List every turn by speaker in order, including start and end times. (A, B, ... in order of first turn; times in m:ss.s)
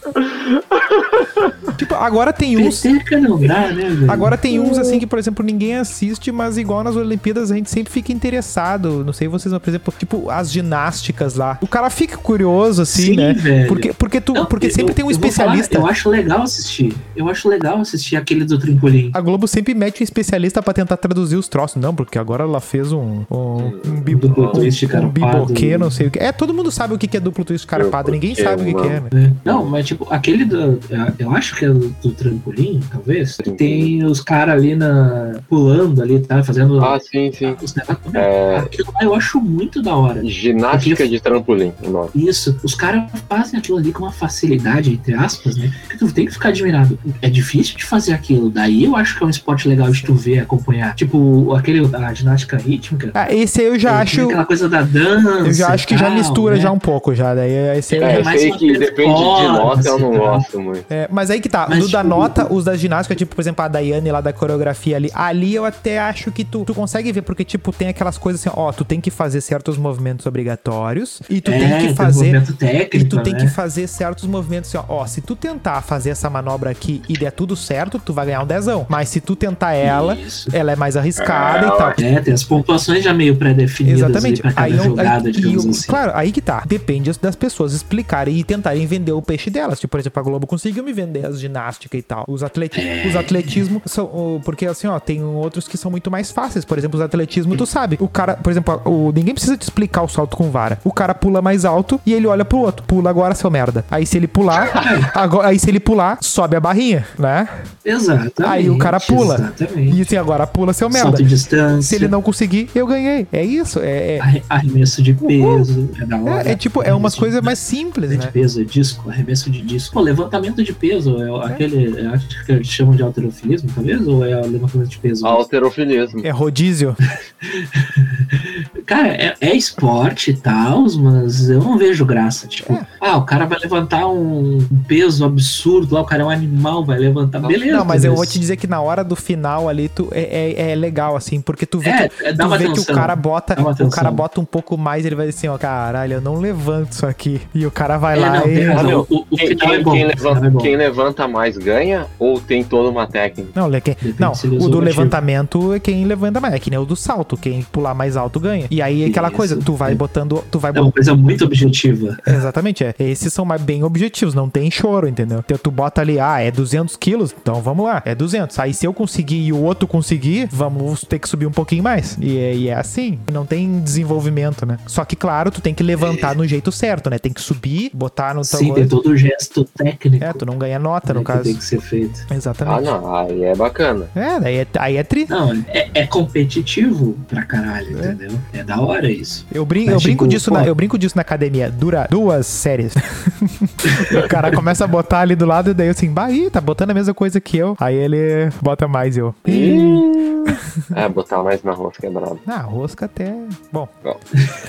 0:00.1-0:01.6 A
0:01.8-0:02.9 B
0:02.5-0:04.4 C
0:04.1-0:15.9 B
0:04.5-0:05.0 A
0:12.9-0:19.2 C
0:19.1-0:29.1 B
0:23.6-0:24.7 A
0:24.1-0:26.1 C
0:27.8-0:29.7 A
0:29.1-0:41.0 C
0:33.4-0:33.9 A
0:36.8-0:37.6 A
0:38.1-0:38.7 A
0:40.2-0:42.1 A
0:42.1-0:53.2 C
0:53.1-0:54.4 B
0:53.8-0:56.7 C
0:55.4-0:58.3 B
0:57.9-1:00.4 C
0:58.0-1:00.9 A
1:00.9-1:12.4 B
1:01.7-1:02.5 C
1:11.4-1:13.6 C
1:12.9-1:22.0 B
1:19.8-1:20.6 C
1:21.2-1:22.0 A
1:22.0-1:26.0 C
1:23.8-1:47.6 B
1:32.7-1:33.6 C
1:44.7-1:45.1 C
1:47.8-1:50.1 C
1:48.4-1:51.3 B
1:50.9-1:52.1 C
1:51.8-1:54.2 B
1:54.2-1:57.6 C
1:55.2-1:55.7 B
1:56.2-1:58.3 B
1:58.1-2:05.4 C
2:05.2-2:06.3 A
2:06.2-2:07.0 B
2:07.4-2:18.4 C
2:12.6-2:12.9 B
2:17.7-2:28.9 B
2:21.8-2:24.2 C
2:28.1-2:30.7 C
2:28.7-2:33.5 A
2:33.5-2:40.9 B
2:34.0-2:35.2 C
2:39.0-2:40.0 C
2:40.7-2:42.4 C
2:42.2-2:58.9 B
2:56.0-2:56.3 C
2:58.4-3:00.4 C
3:00.2-3:01.6 B
3:01.0-3:02.3 C
3:02.3-3:02.9 B
3:02.6-3:04.1 A
3:04.1-3:05.3 B
3:05.3-3:10.7 C
3:07.9-3:08.2 B
3:09.5-3:20.6 B
3:13.9-3:14.4 C
3:19.4-3:22.4 A
3:22.4-3:23.9 B